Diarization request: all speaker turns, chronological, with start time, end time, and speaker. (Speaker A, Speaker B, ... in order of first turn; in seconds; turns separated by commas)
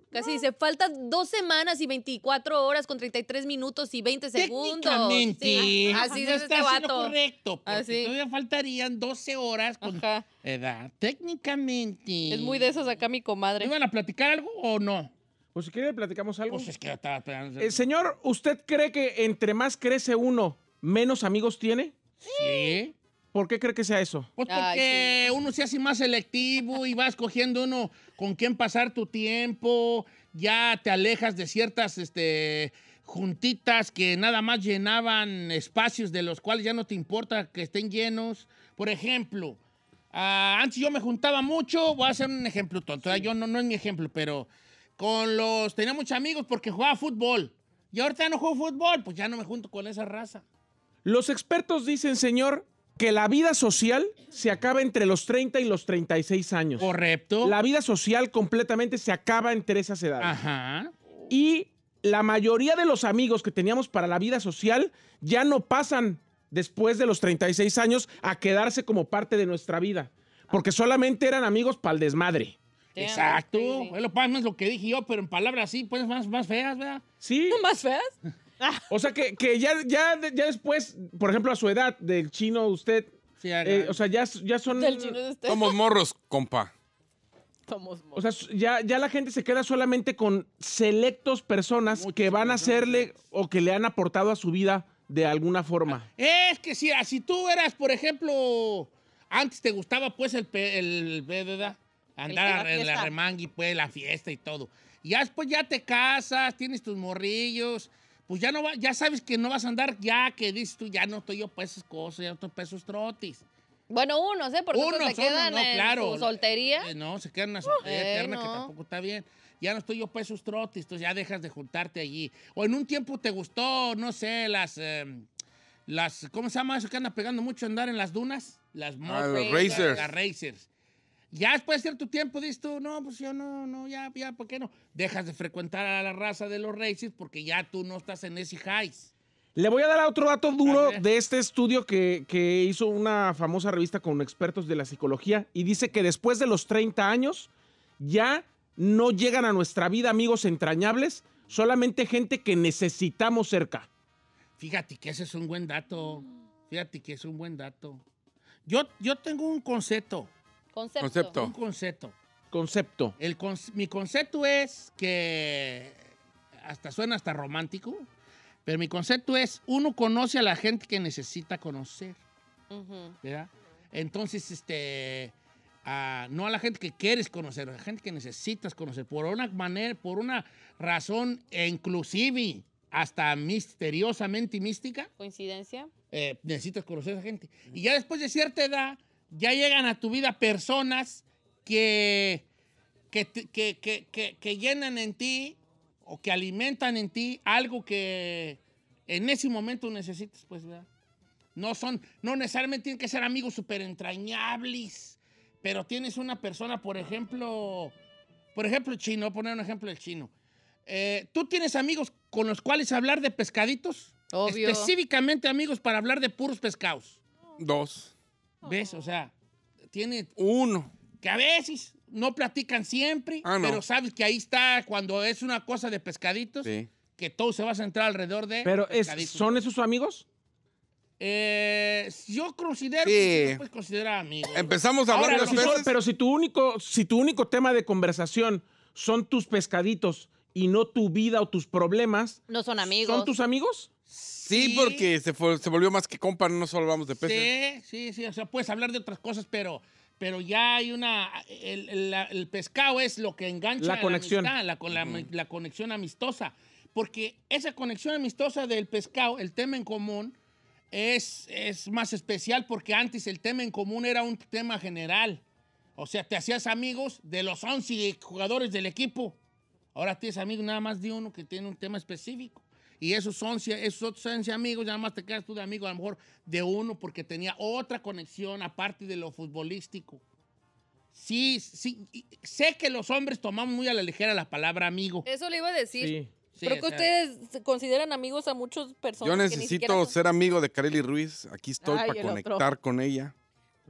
Speaker A: 0.1-7.1, Speaker B: 4.3-12.7, Speaker A: 7.7-8.1, Speaker A: 9.8-10.2, Speaker A: 12.3-13.7, Speaker B: 13.6-15.1, Speaker C: 15.5-16.7, Speaker B: 16.5-17.8, Speaker C: 17.6-21.9, Speaker B: 22.2-22.9, Speaker A: 22.3-22.7, Speaker C: 23.3-24.3, Speaker B: 24.4-39.6, Speaker A: 24.5-25.3, Speaker B: 40.1-50.4, Speaker C: 51.0-56.9, Speaker B: 56.8-57.5, Speaker C: 57.4-60.4, Speaker B: 60.2-60.9, Speaker C: 61.3-72.5, Speaker A: 72.9-73.9, Speaker B: 73.0-77.0, Speaker C: 77.2-77.6, Speaker A: 77.5-78.1, Speaker C: 78.9-83.1, Speaker B: 83.4-84.0, Speaker C: 83.6-85.2, Speaker A: 84.7-85.8, Speaker D: 85.5-86.7, Speaker E: 87.7-88.3, Speaker C: 88.1-96.1, Speaker B: 91.9-93.1, Speaker B: 95.8-113.4, Speaker E: 102.3-103.1, Speaker A: 113.9-116.9, Speaker B: 114.7-125.2, Speaker A: 117.8-118.7, Speaker B: 125.9-130.7, Speaker D: 129.1-130.1, Speaker A: 129.3-130.0, Speaker B: 131.3-139.1, Speaker C: 139.6-153.9, Speaker B: 140.6-141.0, Speaker B: 154.6-158.0, Speaker B: 158.7-160.3, Speaker A: 160.7-161.4, Speaker D: 161.0-161.5, Speaker B: 161.3-162.1, Speaker C: 162.5-163.1, Speaker B: 163.2-166.0, Speaker B: 166.6-168.1, Speaker B: 168.6-172.2, Speaker A: 172.7-173.1, Speaker B: 173.2-175.3, Speaker B: 175.8-185.1, Speaker A: 185.2-185.9, Speaker B: 186.1-192.4, Speaker B: 193.1-200.9, Speaker B: 201.6-207.9, Speaker B: 208.5-210.3, Speaker B: 210.8-217.2, Speaker A: 214.3-214.9, Speaker D: 217.6-218.1, Speaker E: 218.6-219.0, Speaker B: 218.6-219.3, Speaker B: 219.9-220.3, Speaker D: 220.4-220.9, Speaker B: 221.2-229.6, Speaker D: 223.4-223.8, Speaker D: 226.6-226.9, Speaker C: 228.6-230.2, Speaker B: 231.2-235.8, Speaker D: 233.0-233.6, Speaker D: 234.5-235.9, Speaker C: 235.1-242.4, Speaker A: 242.5-243.3, Speaker C: 243.0-243.9, Speaker B: 244.1-245.1, Speaker D: 244.5-247.5, Speaker B: 247.2-260.3, Speaker C: 253.8-254.5, Speaker D: 254.9-255.3, Speaker B: 260.9-265.4, Speaker B: 266.0-269.4, Speaker B: 269.9-280.2, Speaker B: 281.1-285.2, Speaker A: 285.2-290.1, Speaker C: 286.0-286.3, Speaker B: 286.6-287.1, Speaker D: 289.2-293.3, Speaker E: 291.9-292.6, Speaker A: 291.9-292.6